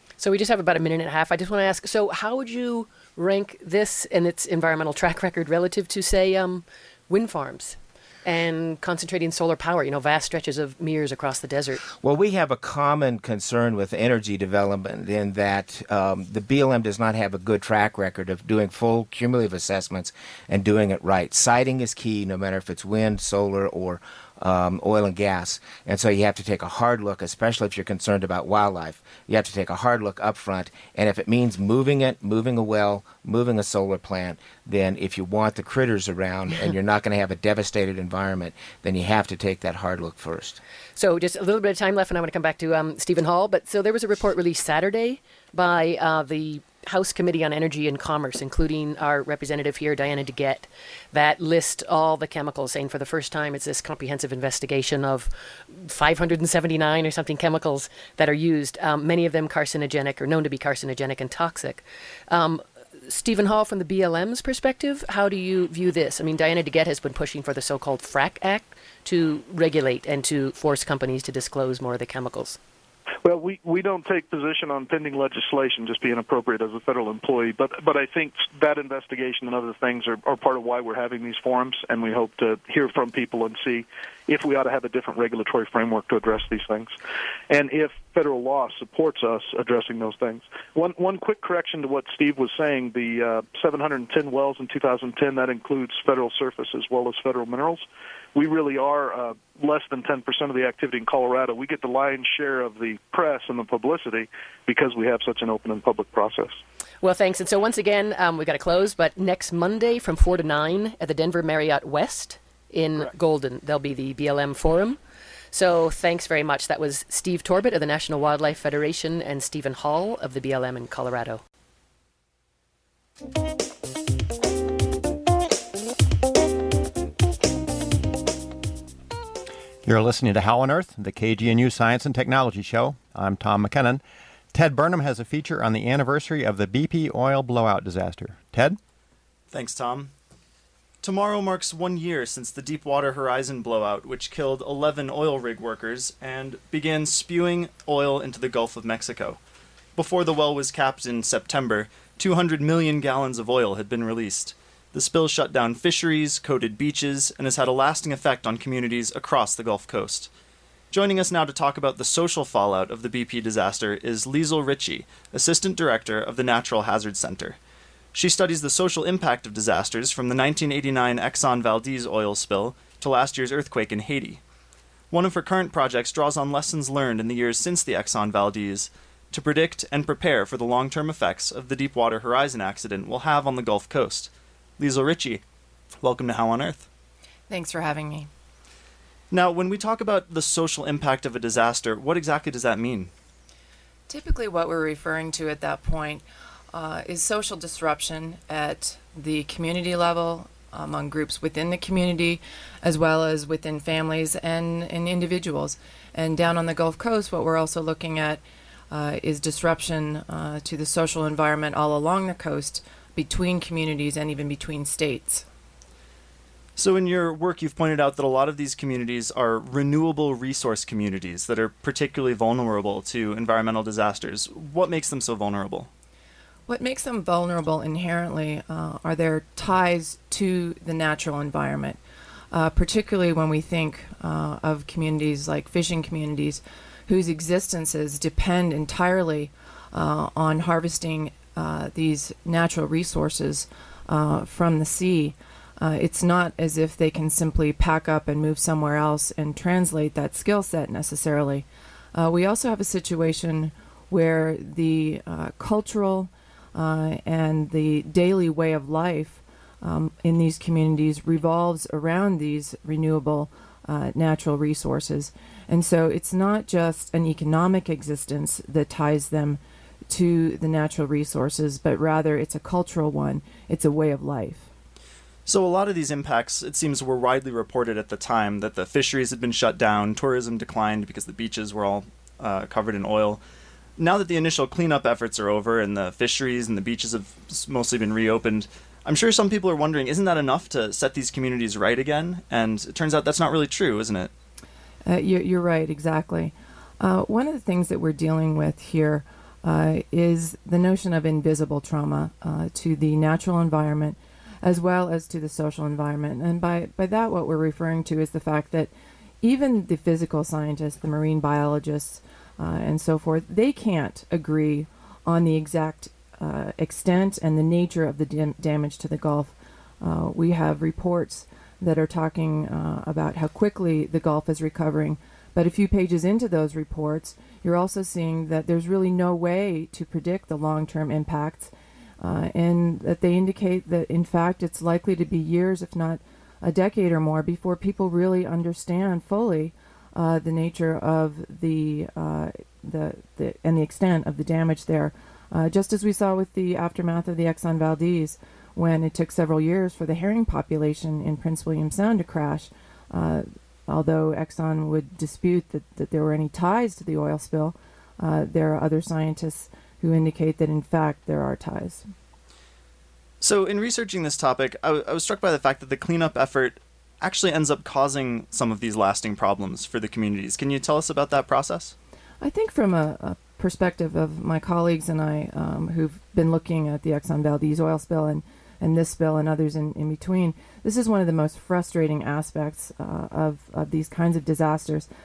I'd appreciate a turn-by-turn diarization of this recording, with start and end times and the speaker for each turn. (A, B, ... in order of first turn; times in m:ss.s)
0:00.2-0:11.8 A
0:12.0-0:40.6 B
0:41.0-1:12.6 A
1:13.2-1:26.9 C
1:27.5-1:37.8 C
1:38.3-1:46.6 C
1:47.0-1:55.0 A
1:55.5-2:01.4 A
2:09.8-2:14.0 D
2:14.5-2:18.8 D
2:19.5-2:20.1 E
2:21.0-2:29.4 E
2:30.0-2:40.3 E
2:40.9-2:47.6 E
2:48.1-2:54.4 E
2:55.1-3:05.4 E
3:06.0-3:06.8 E
3:07.5-3:08.3 F
3:09.3-3:13.1 E
3:14.1-3:35.4 F
3:36.8-3:45.9 E
3:46.7-3:52.0 F
3:52.5-4:34.7 F
4:35.4-4:43.4 E
4:44.0-4:54.3 E
4:55.0-5:08.9 F
5:09.4-6:02.0 F
6:03.4-6:11.9 E
6:12.4-6:25.1 F